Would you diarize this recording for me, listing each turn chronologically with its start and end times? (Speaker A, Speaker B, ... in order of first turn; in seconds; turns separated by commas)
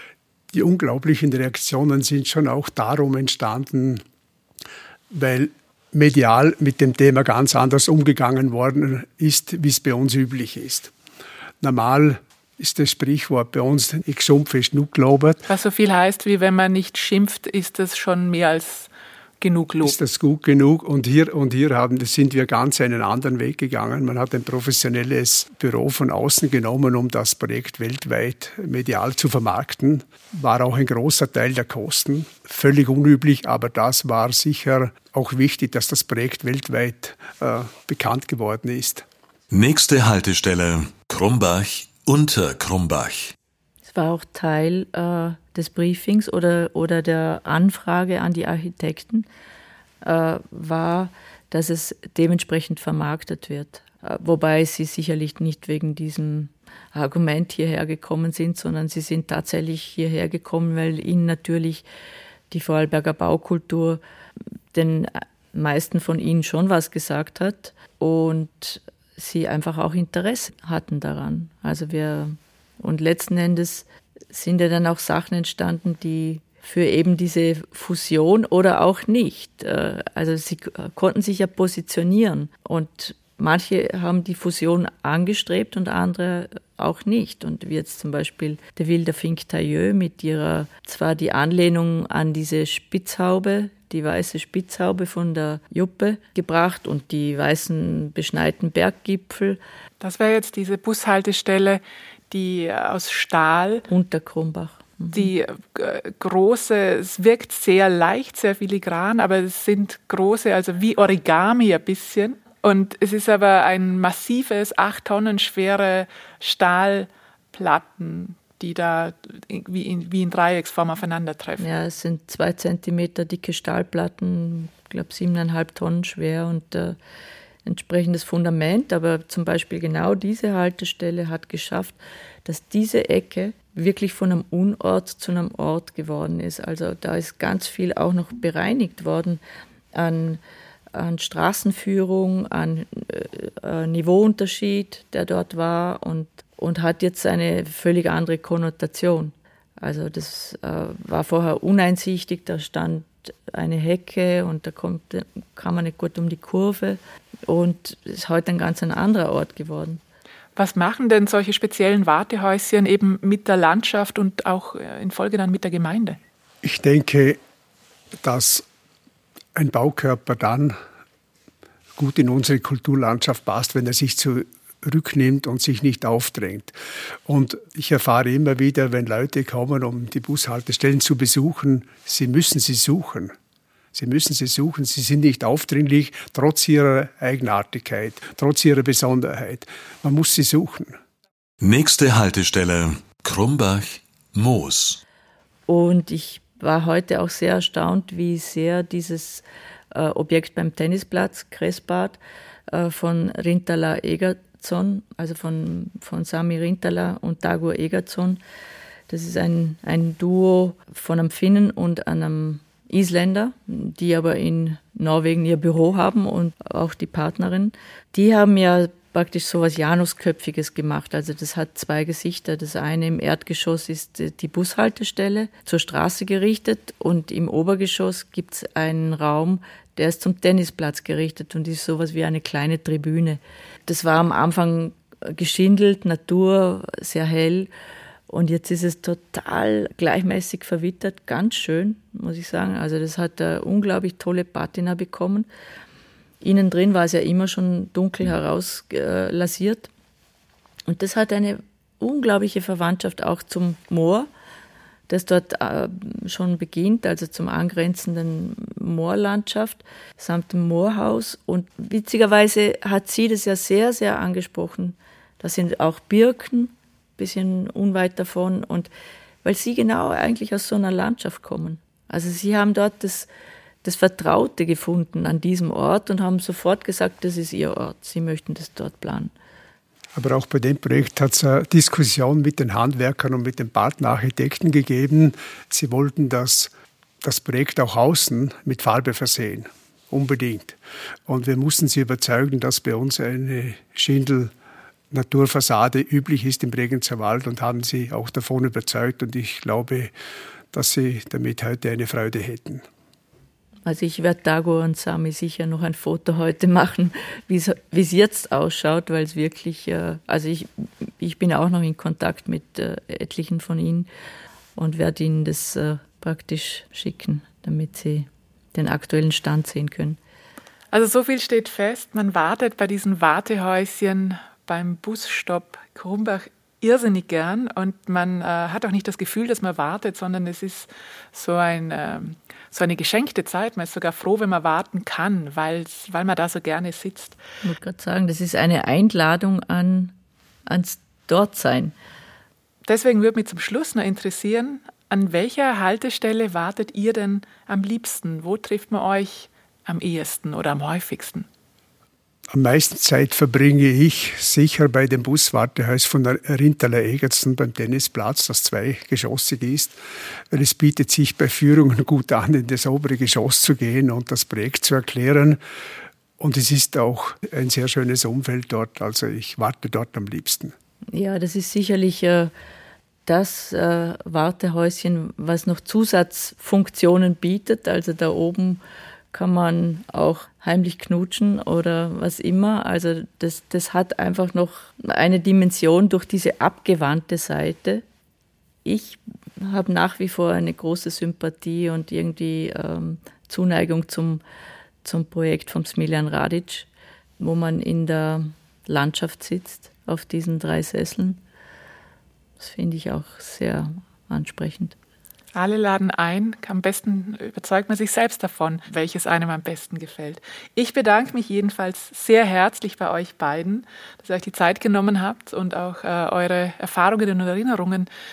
Speaker A: 0.5-4.0, Speaker A: 5.1-10.9, Speaker A: 11.6-15.5, Speaker B: 15.5-18.9, Speaker B: 19.4-19.9, Speaker A: 19.8-39.0, Speaker C: 39.5-43.3, Speaker D: 43.9-49.3, Speaker D: 50.0-61.8, Speaker D: 62.5-64.0, Speaker D: 64.7-99.6, Speaker B: 100.0-103.8, Speaker D: 103.9-105.3, Speaker B: 105.1-121.7, Speaker D: 121.6-127.0, Speaker D: 127.6-139.4, Speaker D: 139.9-140.4, Speaker D: 140.9-160.0, Speaker B: 160.6-166.2, Speaker A: 166.6-167.4, Speaker A: 168.2-168.7, Speaker A: 169.5-170.8, Speaker A: 171.9-176.7, Speaker A: 177.2-183.3, Speaker A: 183.9-191.0, Speaker C: 191.6-195.0, Speaker D: 195.7-202.2, Speaker D: 202.7-208.4, Speaker D: 209.1-237.7, Speaker D: 238.3-245.5, Speaker D: 246.4-249.9, Speaker D: 250.9-254.3, Speaker D: 255.1-268.9, Speaker D: 269.4-273.3, Speaker D: 273.8-279.3, Speaker A: 280.1-294.5, Speaker A: 295.1-300.1, Speaker A: 300.7-302.8, Speaker D: 303.8-314.1, Speaker D: 314.8-320.2, Speaker B: 320.9-337.4, Speaker D: 337.6-340.1, Speaker D: 340.7-341.9, Speaker B: 342.9-351.5, Speaker A: 352.5-360.0, Speaker A: 360.5-365.6, Speaker A: 366.4-370.7, Speaker D: 371.1-372.5, Speaker D: 373.2-378.8, Speaker D: 379.3-388.0, Speaker D: 388.8-394.4, Speaker D: 395.0-396.9, Speaker D: 397.4-401.4, Speaker D: 402.6-404.9, Speaker B: 405.5-418.1